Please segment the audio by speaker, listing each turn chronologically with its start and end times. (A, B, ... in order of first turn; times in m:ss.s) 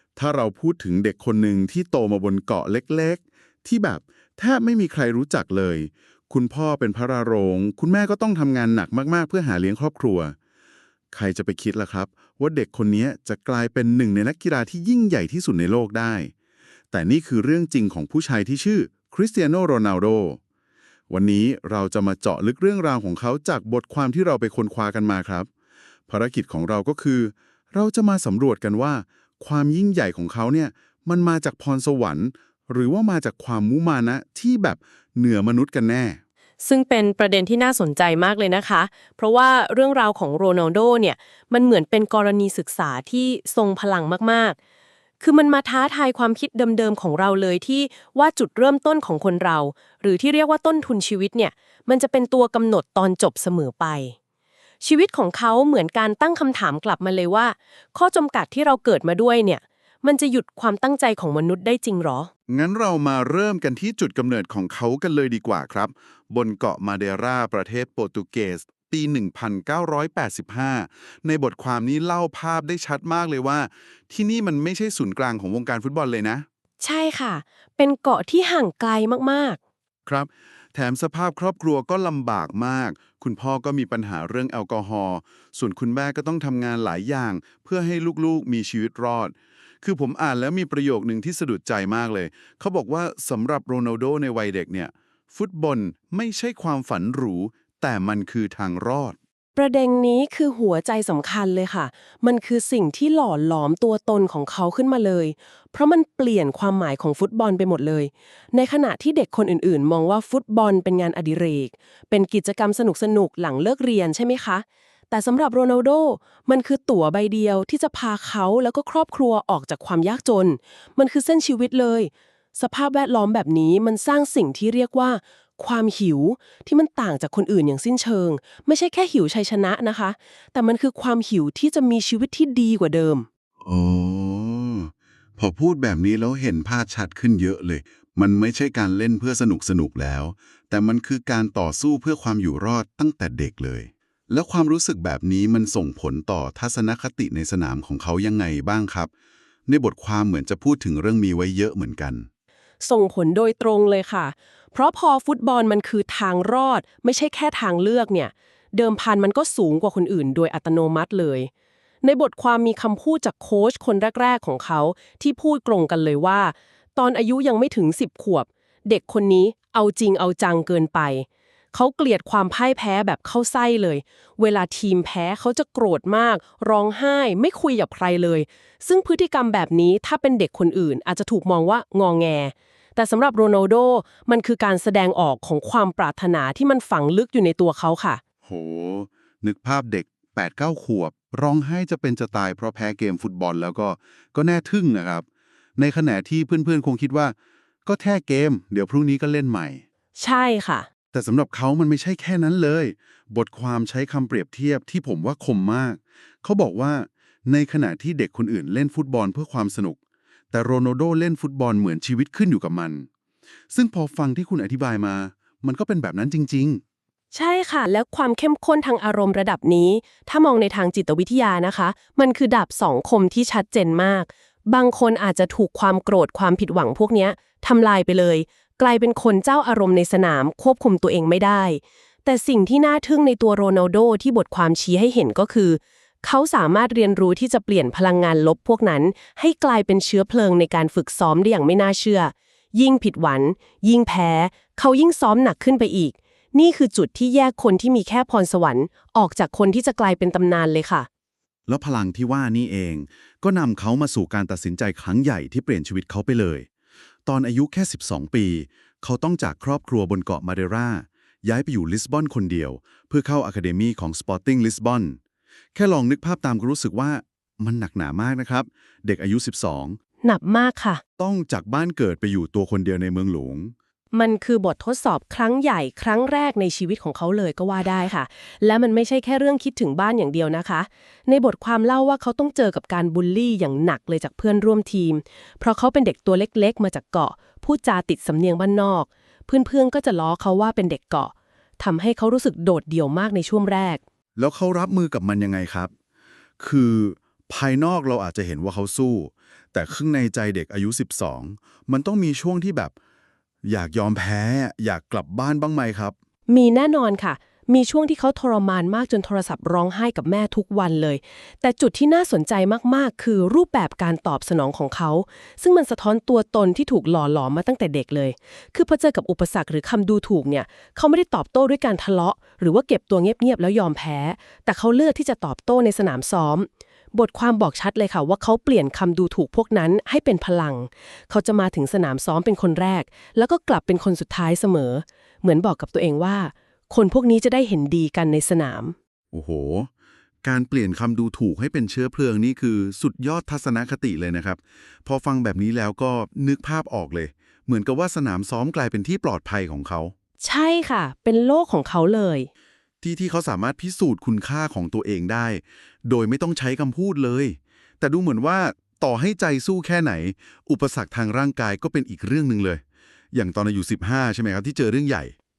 0:00.2-0:10.4 A
0:11.1-0:16.3 A
0:16.9-0:20.4 A
0:21.1-0:25.5 A
0:26.1-0:36.2 A
0:36.6-0:44.6 B
0:45.2-0:54.2 B
0:54.8-1:02.3 B
1:02.5-1:16.5 A
1:16.8-1:19.6 B
1:20.1-1:39.2 A
1:39.6-2:13.3 B
2:13.6-2:29.1 A
2:29.7-2:32.3 A
2:32.8-2:41.5 B
2:42.0-3:08.2 B
3:08.4-3:15.2 A
3:15.8-3:17.4 A
3:17.9-3:19.8 A
3:20.2-3:20.9 B
3:21.1-3:30.0 A
3:30.5-3:33.1 A
3:33.7-3:36.8 A
3:37.3-4:11.1 B
4:11.7-4:16.7 A
4:17.3-4:25.2 A
4:25.8-4:30.0 A
4:30.2-4:31.0 B
4:31.2-4:33.8 A
4:34.1-4:54.0 B
4:54.4-4:55.9 A
4:56.6-5:02.9 A
5:03.6-5:06.2 A
5:06.5-5:39.0 B
5:39.3-5:39.9 A
5:40.4-5:50.1 A
5:50.4-5:52.5 B
5:53.0-6:02.8 A
6:03.3-6:05.3 A